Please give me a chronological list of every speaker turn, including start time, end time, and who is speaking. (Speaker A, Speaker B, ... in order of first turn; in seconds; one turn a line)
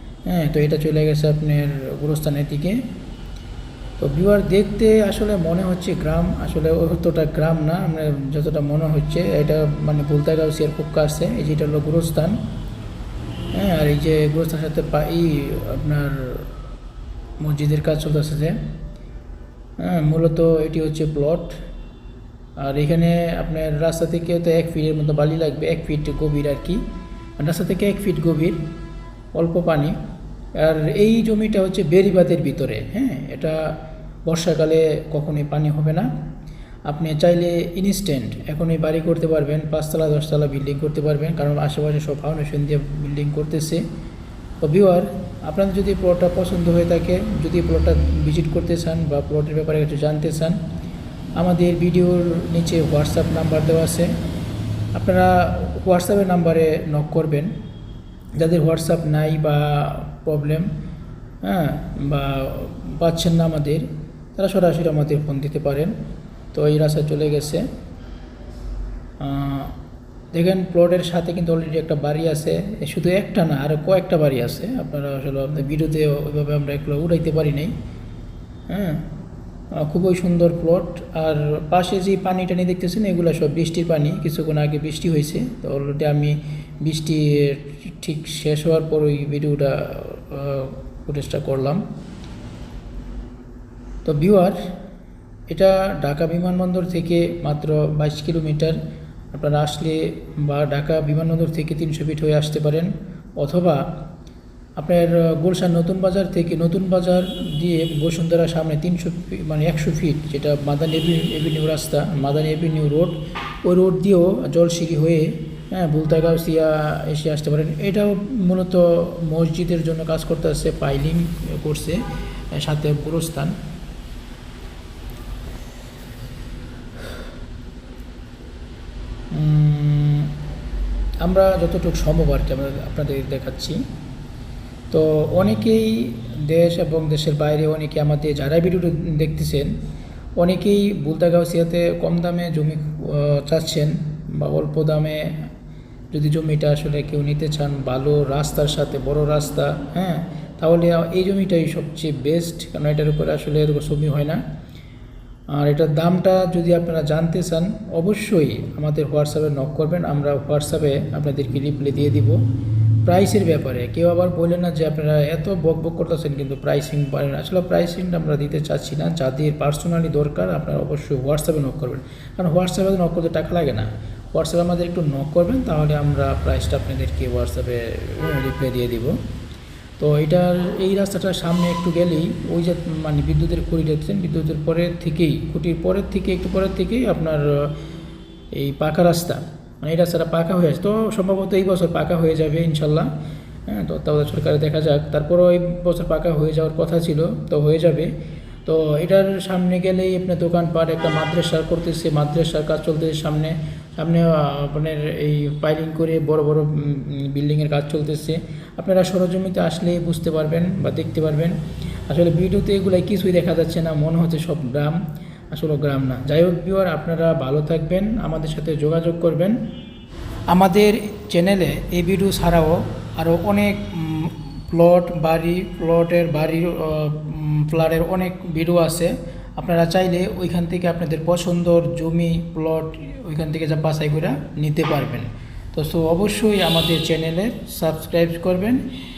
Speaker A: 0.3-2.8
Speaker A: 4.0-12.4
Speaker A: 13.6-16.5
Speaker A: 17.4-18.6
Speaker A: 19.8-21.6
Speaker A: 22.6-26.8
Speaker A: 27.4-28.6
Speaker A: 29.3-29.9
Speaker A: 30.6-33.6
Speaker A: 34.3-36.1
Speaker A: 36.9-43.8
Speaker A: 44.6-50.6
Speaker A: 51.4-54.1
Speaker A: 54.9-57.5
Speaker A: 58.4-60.7
Speaker A: 61.4-65.9
Speaker A: 66.5-67.7
Speaker A: 69.2-69.8
Speaker A: 70.3-77.7
Speaker A: 78.7-79.1
Speaker A: 79.8-91.8
Speaker A: 94.0-94.6
Speaker A: 95.5-98.8
Speaker A: 99.3-103.8
Speaker A: 104.8-122.0
Speaker A: 122.5-123.5
Speaker A: 129.3-130.3
Speaker A: 131.2-133.8
Speaker A: 134.9-139.7
Speaker A: 140.4-145.4
Speaker A: 146.1-154.4
Speaker A: 155.5-162.4
Speaker A: 163.1-179.1
Speaker A: 180.0-187.8
Speaker A: 188.5-193.1
Speaker A: 193.7-198.1
Speaker A: 198.7-211.6
Speaker A: 212.1-215.0
Speaker A: 215.5-219.6
Speaker A: 220.5-238.8